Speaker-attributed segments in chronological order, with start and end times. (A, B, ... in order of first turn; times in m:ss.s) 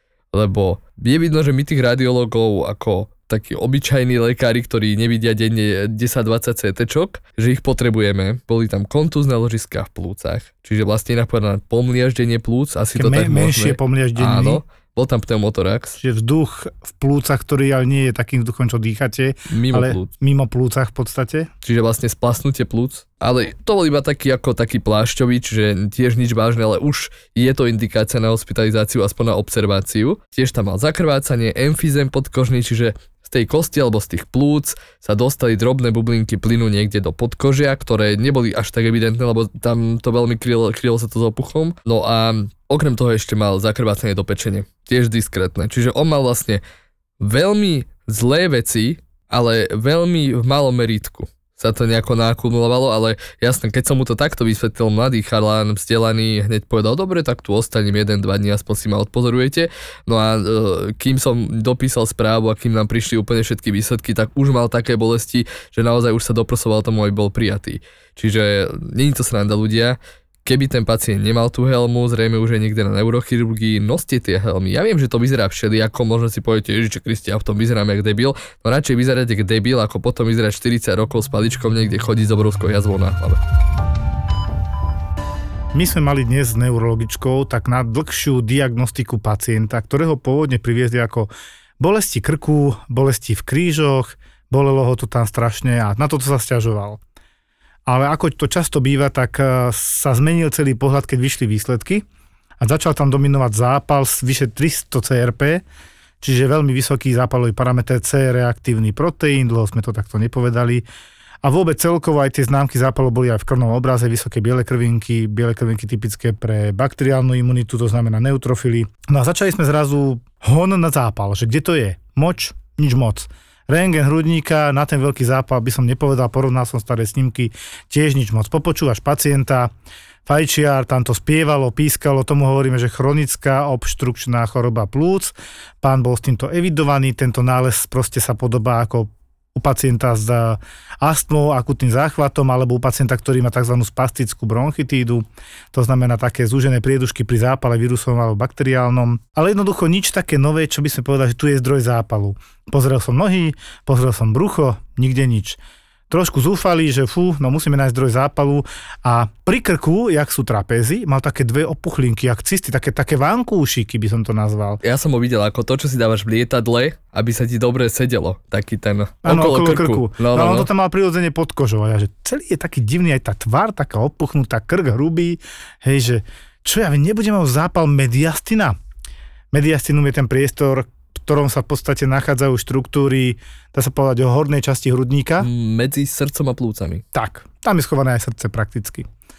0:00.3-0:16.0 A
0:13.0-0:14.6 B
0:16.0-0:21.5 B
0:19.5-0:20.1 A
0:21.6-0:46.6 A
0:47.2-1:23.4 A
1:25.7-1:37.0 B
1:37.8-1:42.0 B
1:42.6-1:45.6 B
1:46.2-1:50.8 B
1:51.4-2:09.7 B
2:10.2-2:35.6 B
2:36.1-2:44.8 B
2:44.8-2:50.7 A
2:49.2-2:58.8 B
2:59.5-3:05.5 B
3:05.4-3:07.0 A
3:07.1-3:09.1 B